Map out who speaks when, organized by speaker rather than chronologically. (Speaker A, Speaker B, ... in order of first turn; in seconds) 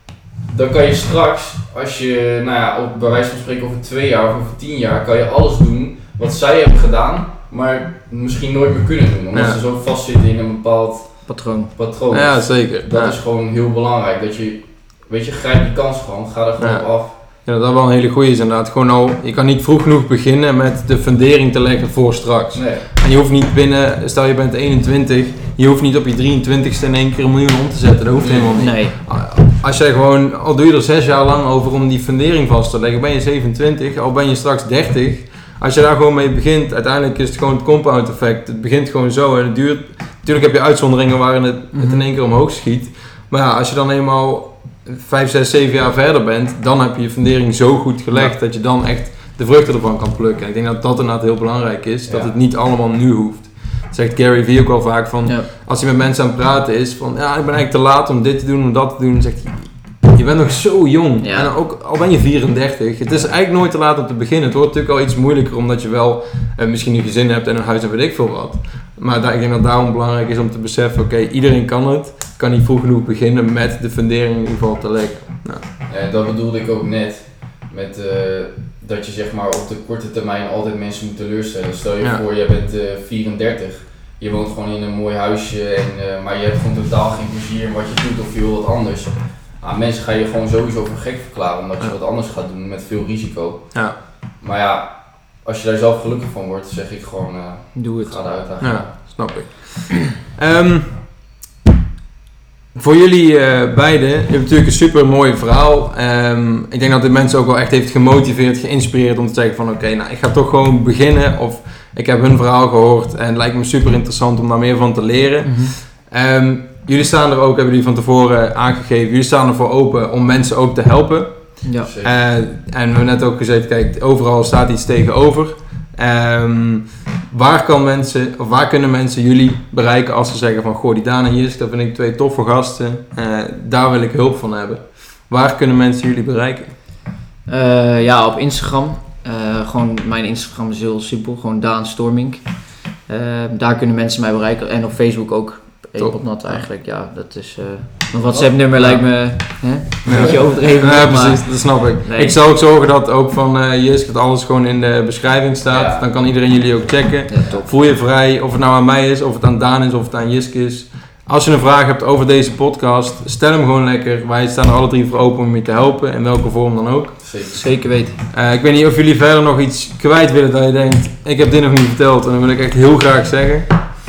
Speaker A: 0.5-17.2, 22.5-22.9, 28.2-28.7, 52.1-52.3, 75.8-99.2, 121.8-122.2, 148.2-148.6, 150.1-150.4, 155.7-156.1, 167.2-167.7
Speaker B: 9.3-9.6, 12.1-13.2, 16.6-75.6, 98.6-101.1, 102.7-136.8, 146.0-146.7, 148.7-149.4, 150.0-167.2, 168.3-173.7
Speaker C: 11.3-11.7, 28.6-28.9, 41.7-42.0, 61.2-61.5, 97.7-98.1, 115.4-115.7, 121.6-121.9, 137.5-152.4, 157.3-157.7, 167.5-168.2